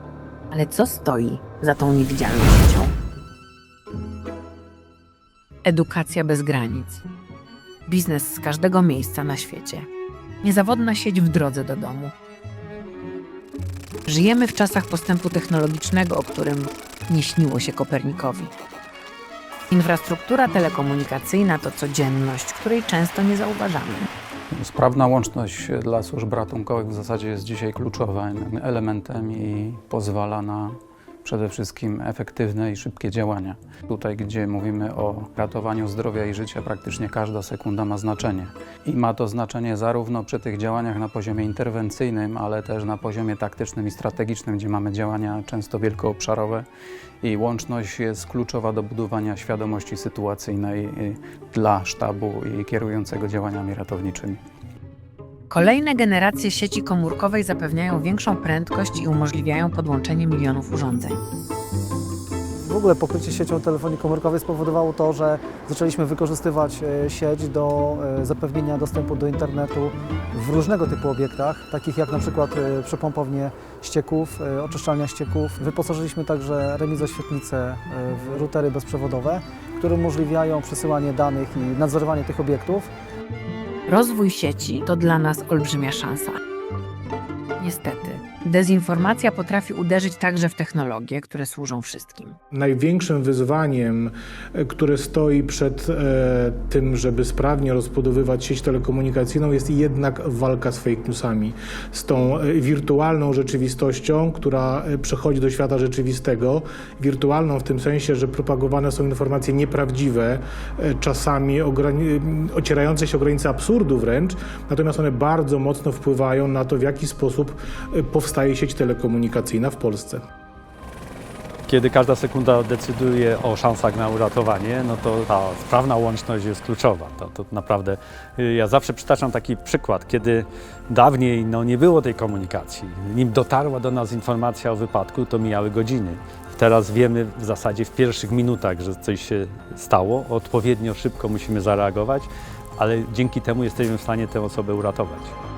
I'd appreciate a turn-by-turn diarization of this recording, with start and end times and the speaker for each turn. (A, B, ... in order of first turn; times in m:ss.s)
0:00.5-0:02.9 A
0:05.6-0:07.0 A
0:07.8-0:09.9 A
0:10.4-0:12.1 A
0:14.0-0:18.5 A
0:19.7-0:24.1 A
0:24.5-0:46.7 B
0:47.2-0:54.4 B
0:55.5-1:01.2 A
1:02.6-1:22.9 C
1:23.9-1:26.4 A
1:27.6-1:32.4 A
1:32.5-2:00.2 D
2:01.6-2:25.3 E